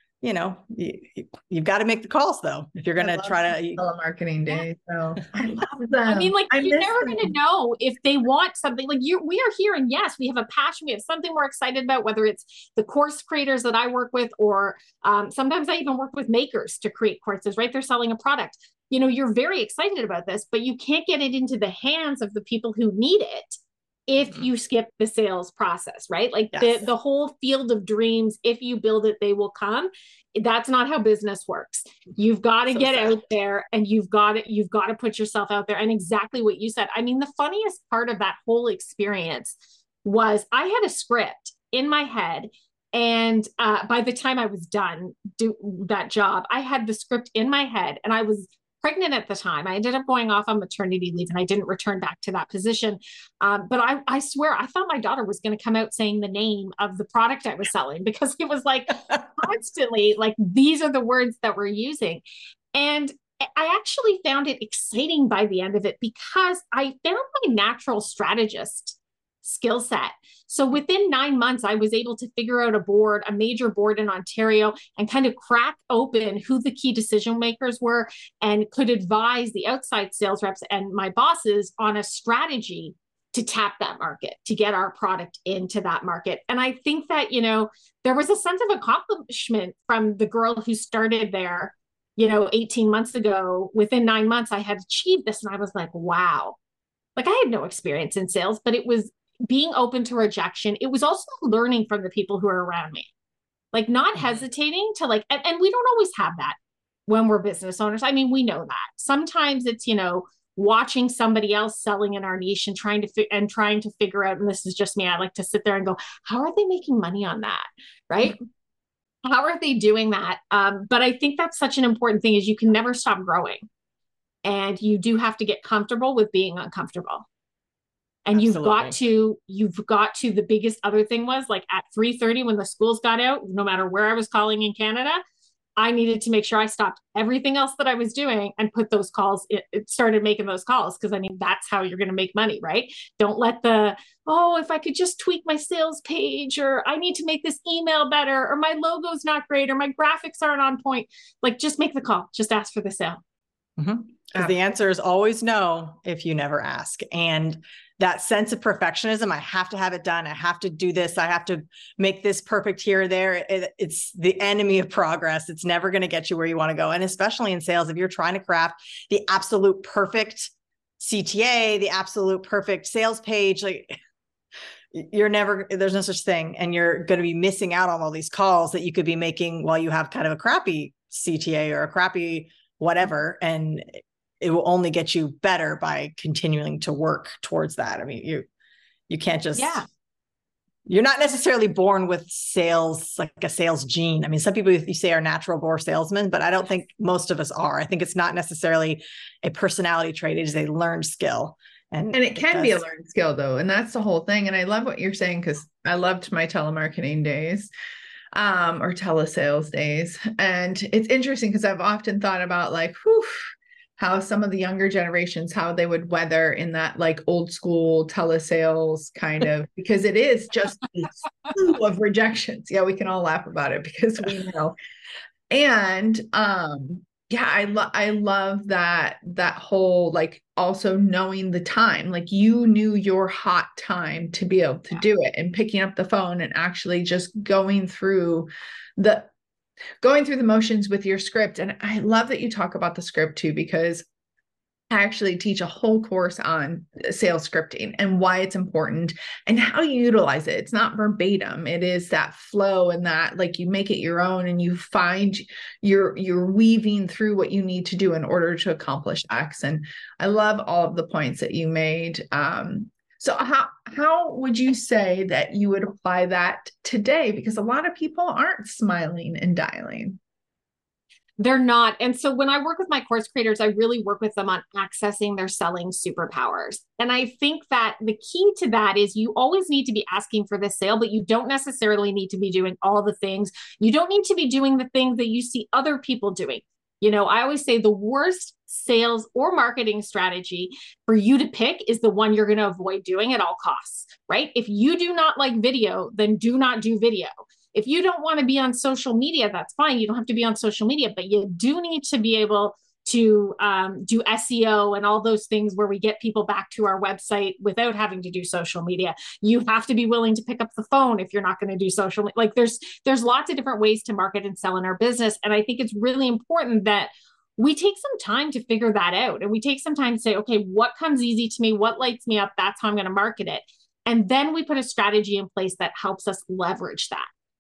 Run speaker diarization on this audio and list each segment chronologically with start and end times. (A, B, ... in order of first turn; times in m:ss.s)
0:00.2-0:03.8 A
0:03.0-0:07.3 B
0:06.1-0:23.6 C
0:24.1-1:02.2 C
0:26.5-0:26.8 A
0:32.7-0:33.2 A
1:02.8-1:36.6 C
1:37.2-1:43.1 C
1:43.7-1:46.6 C
1:47.1-1:58.4 C
1:59.2-2:03.7 C
2:04.4-2:07.3 C
2:08.3-2:15.2 C
2:08.3-2:09.0 A
2:15.8-2:33.2 C
2:33.8-2:54.0 A
2:54.9-3:08.5 A
3:09.1-3:09.9 A
3:09.6-3:09.9 C
3:10.9-3:22.8 A
3:22.1-3:27.7 B
3:28.3-3:44.8 B
3:45.5-3:59.3 B
4:00.0-4:04.1 B
4:04.9-4:30.2 B
4:31.4-5:27.3 C